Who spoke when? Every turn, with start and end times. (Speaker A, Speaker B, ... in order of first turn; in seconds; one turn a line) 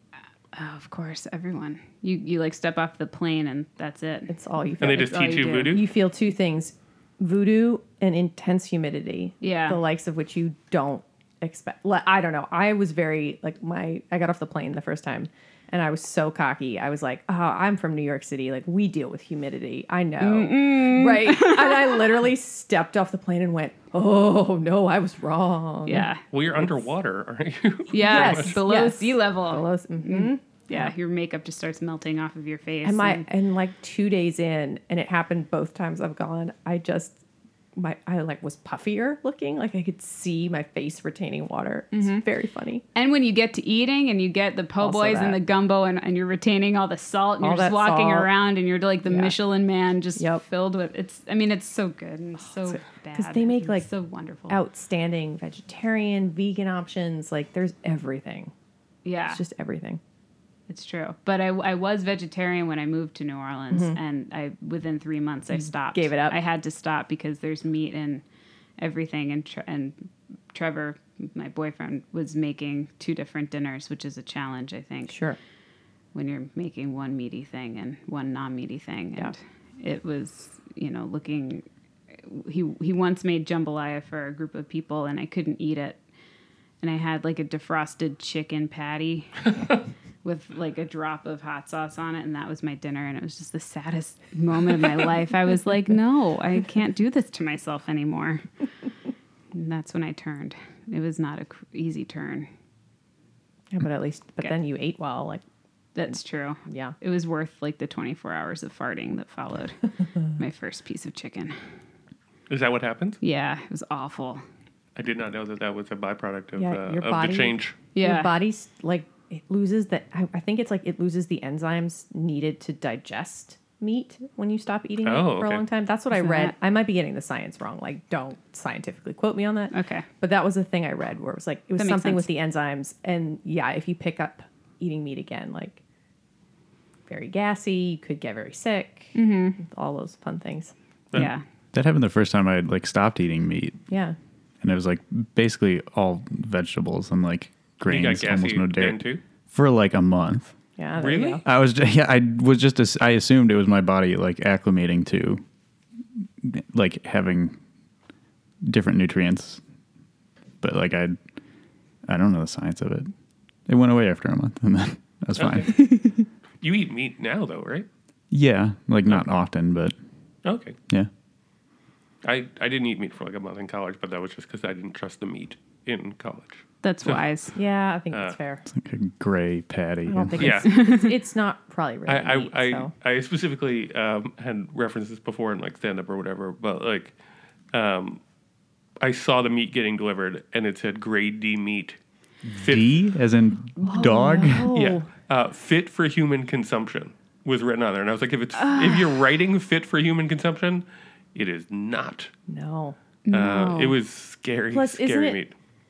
Speaker A: 0.5-5.8
Speaker B: 4.3-26.9
Speaker C: 4.8-5.8
Speaker A: 9.4-9.8
Speaker A: 20.2-22.2
Speaker A: 25.9-26.2
Speaker C: 26.3-28.6
Speaker A: 27.9-33.2
Speaker B: 27.9-30.9
Speaker B: 32.8-37.2
Speaker B: 37.8-42.8
Speaker A: 41.9-42.2
Speaker A: 43.0-54.6
Speaker B: 44.8-45.4
Speaker B: 47.4-48.3
Speaker B: 49.1-49.4
Speaker B: 50.2-50.4
Speaker B: 52.7-53.9
Speaker B: 54.5-58.5
Speaker A: 59.0-59.4
Speaker B: 59.3-60.0
Speaker A: 60.7-68.2
Speaker B: 63.7-64.0
Speaker B: 65.5-66.4
Speaker A: 68.8-75.2
Speaker B: 75.1-75.4
Speaker A: 76.1-86.0
Speaker A: 86.8-89.5
Speaker A: 90.2-98.5
Speaker A: 99.5-102.5
Speaker B: 103.7-105.4
Speaker A: 106.0-109.8
Speaker B: 106.7-107.0
Speaker A: 110.3-111.5
Speaker C: 112.5-113.2
Speaker A: 113.2-114.4
Speaker C: 115.0-117.8
Speaker B: 116.6-135.8
Speaker A: 117.9-118.3
Speaker C: 125.0-125.7
Speaker A: 126.1-126.5
Speaker A: 129.7-130.1
Speaker A: 131.8-132.3
Speaker B: 137.1-140.7
Speaker A: 139.1-139.6
Speaker A: 141.2-141.4
Speaker D: 141.2-143.8
Speaker B: 143.9-144.2
Speaker D: 144.6-150.5
Speaker C: 147.9-149.2
Speaker B: 150.8-151.4
Speaker C: 151.0-151.4
Speaker D: 151.4-155.4
Speaker D: 156.4-157.6
Speaker D: 158.7-159.6
Speaker D: 160.6-161.2
Speaker D: 162.1-163.1
Speaker D: 163.7-166.0
Speaker C: 165.4-165.8
Speaker C: 166.6-167.9
Speaker D: 168.3-169.9
Speaker C: 170.4-170.8
Speaker C: 172.2-177.2
Speaker A: 176.8-177.6
Speaker B: 177.6-178.6
Speaker C: 178.1-178.4
Speaker D: 178.7-180.6
Speaker B: 180.1-182.9
Speaker C: 180.4-180.8
Speaker A: 180.7-181.1
Speaker C: 182.1-187.1
Speaker C: 187.7-188.2
Speaker C: 189.0-192.0
Speaker D: 192.4-194.7
Speaker C: 192.6-193.0
Speaker B: 193.8-195.1
Speaker C: 194.7-202.3
Speaker A: 198.6-199.2
Speaker B: 202.5-203.0
Speaker A: 203.3-204.0
Speaker C: 203.3-205.5
Speaker B: 204.7-205.4